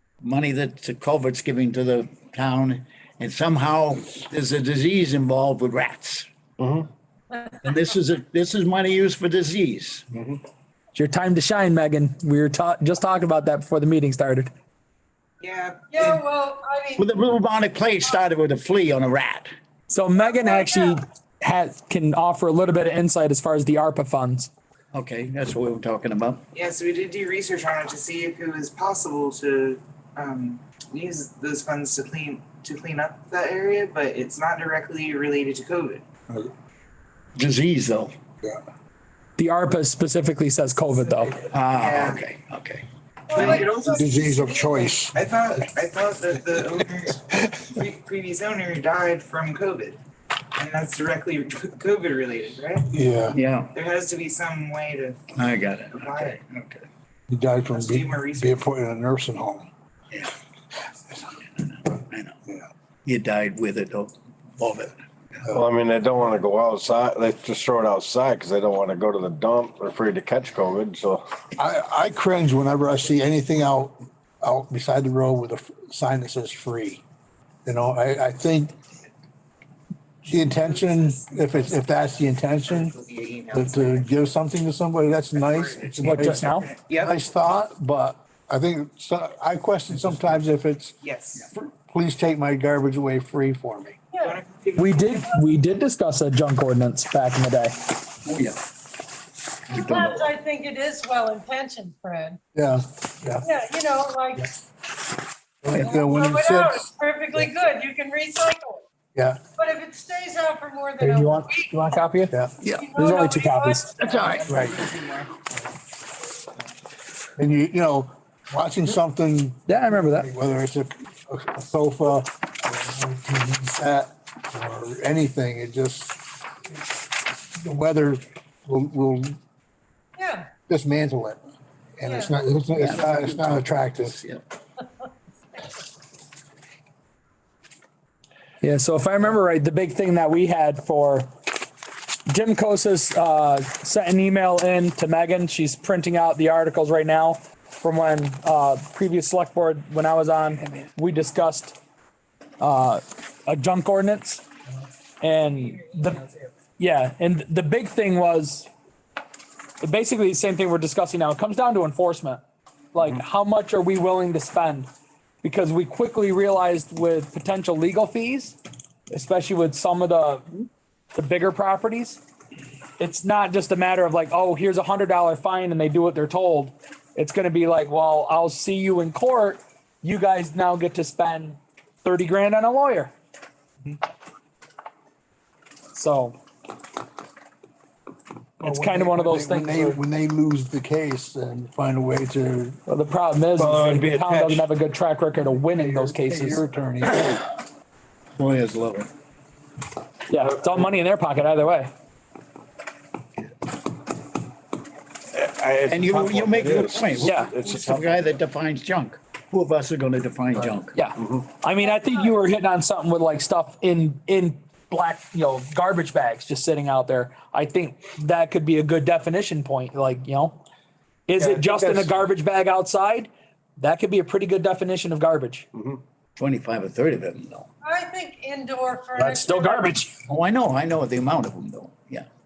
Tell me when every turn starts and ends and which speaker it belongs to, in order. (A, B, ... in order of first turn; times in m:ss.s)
0:00.2-0:06.3 A
0:06.6-0:06.9 B
0:07.3-0:07.6 C
0:07.6-0:10.1 A
0:10.1-0:10.4 B
0:10.9-0:14.5 D
0:15.4-0:16.2 E
0:15.9-0:17.1 C
0:17.0-0:19.5 A
0:19.9-0:24.5 D
0:20.2-0:21.0 C
0:24.9-0:26.4 A
0:26.5-0:36.0 E
0:37.4-0:38.1 A
0:39.4-0:41.5 D
0:41.0-0:42.2 E
0:41.5-0:42.8 A
0:43.3-0:44.8 C
0:43.3-0:50.0 E
0:43.4-0:45.2 F
0:47.3-0:47.7 F
0:50.5-0:52.9 E
0:52.9-0:53.4 F
0:53.3-0:53.7 A
0:53.7-0:55.2 E
0:55.3-0:56.9 A
0:55.9-0:56.4 E
0:57.3-0:59.7 F
0:57.7-0:58.6 E
1:01.3-1:02.4 A
1:03.0-1:05.0 A
1:05.5-1:11.2 B
1:11.6-1:17.0 F
1:17.6-1:18.7 F
1:20.2-1:24.0 E
1:20.2-1:22.9 F
1:23.5-1:30.9 F
1:25.3-1:27.2 E
1:26.0-1:26.7 D
1:31.0-1:31.5 E
1:31.5-1:34.0 F
1:34.1-1:34.4 C
1:34.2-1:35.2 E
1:34.8-1:37.7 D
1:38.2-1:38.6 A
1:39.7-1:40.3 A
1:39.7-1:42.4 C
1:42.5-1:43.5 F
1:43.4-1:44.5 C
1:45.6-1:46.8 F
1:45.8-1:48.8 C
1:49.1-1:49.4 F
1:49.6-1:51.7 C
1:51.0-1:52.4 D
1:52.6-1:52.9 A
1:52.7-1:54.6 C
1:52.9-1:54.0 D
1:54.0-1:54.5 A
1:54.3-1:55.2 E
1:54.5-1:54.9 F
1:57.4-2:06.2 F
1:59.7-2:00.3 D
2:07.6-2:09.4 F
2:10.2-2:10.5 C
2:10.7-2:11.4 F
2:12.0-2:14.2 F
2:12.0-2:12.3 C
2:12.7-2:14.4 A
2:18.6-2:21.3 D
2:22.3-2:31.8 D
2:32.6-2:34.4 D
2:35.2-2:36.2 D
2:35.6-2:36.3 E
2:36.8-2:38.7 D
2:39.8-2:42.4 D
2:42.9-2:44.9 D
2:45.4-2:48.6 D
2:49.1-2:52.2 D
2:53.0-3:03.1 D
3:05.9-3:06.4 D
3:08.6-3:10.0 D
3:08.6-3:12.8 F
3:12.9-3:16.6 D
3:13.5-3:14.7 B
3:15.7-3:17.4 F
3:18.4-3:19.1 A
3:20.3-3:21.9 D
3:25.3-3:28.4 B
3:25.9-3:30.9 A
3:27.2-3:27.5 D
3:30.9-3:40.6 D
3:31.2-3:31.5 B
3:31.8-3:32.3 C
3:41.3-3:45.7 D
3:41.4-3:42.1 B
3:45.7-3:46.0 B
3:46.4-3:47.7 A
3:47.8-3:50.0 C
3:49.2-3:50.1 D
3:50.3-3:52.2 A